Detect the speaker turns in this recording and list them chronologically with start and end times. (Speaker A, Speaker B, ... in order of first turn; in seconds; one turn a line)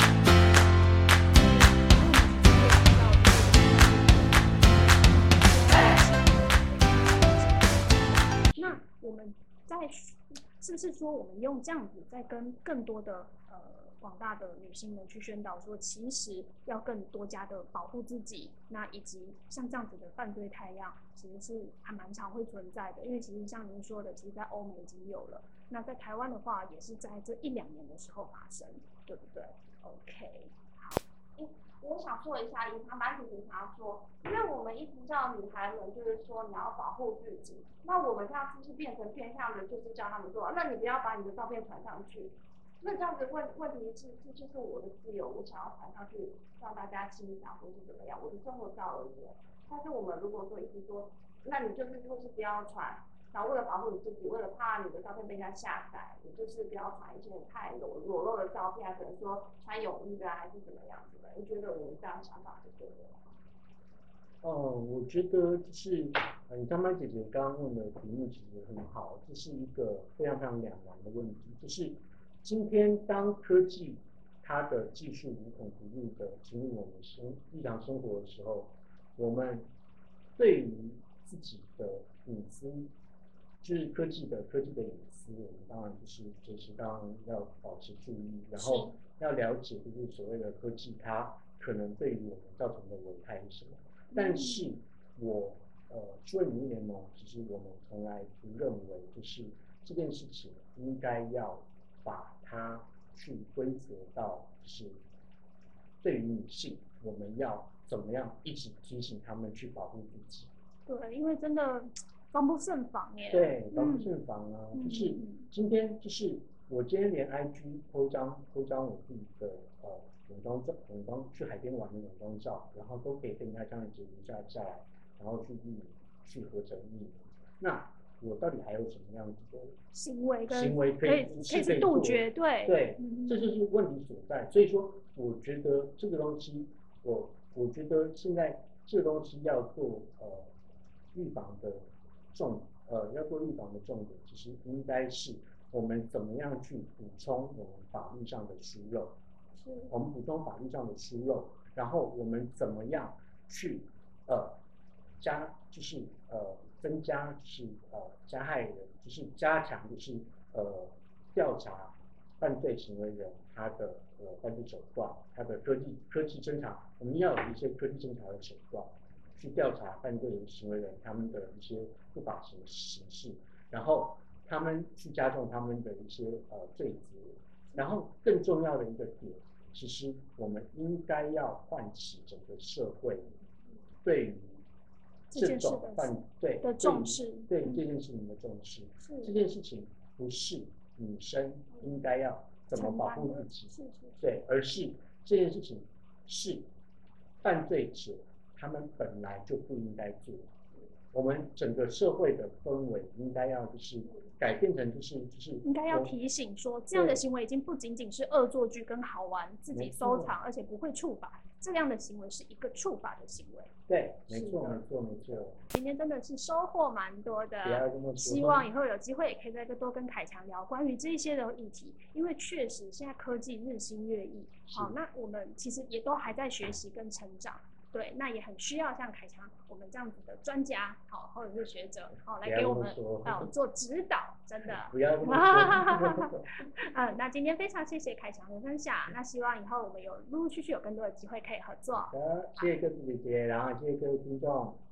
Speaker A: 1.2-30.5
Speaker B: 8.6-8.8
Speaker C: 30.9-63.3
Speaker B: 64.4-79.7
Speaker B: 80.4-82.9
Speaker B: 83.6-105.0
Speaker A: 88.6-88.9
Speaker A: 94.1-94.7
Speaker B: 106.0-110.5
Speaker A: 110.9-114.1
Speaker B: 113.3-129.8
Speaker A: 114.7-115.5
Speaker A: 129.9-133.5
Speaker B: 130.5-140.5
Speaker B: 141.1-149.1
Speaker A: 149.6-149.9
Speaker B: 149.9-154.6
Speaker B: 155.2-183.3
Speaker B: 184.0-184.6
Speaker A: 185.3-187.8
Speaker B: 185.3-196.6
Speaker A: 189.0-189.3
Speaker A: 192.7-194.2
Speaker B: 197.4-200.5
Speaker B: 201.1-206.2
Speaker A: 205.6-213.7
Speaker B: 206.9-207.2
Speaker B: 209.7-210.3
Speaker B: 213.9-215.6
Speaker A: 214.3-214.8
Speaker A: 215.6-242.1
Speaker B: 217.6-218.7
Speaker B: 232.4-233.5
Speaker B: 234.7-236.4
Speaker B: 241.9-244.8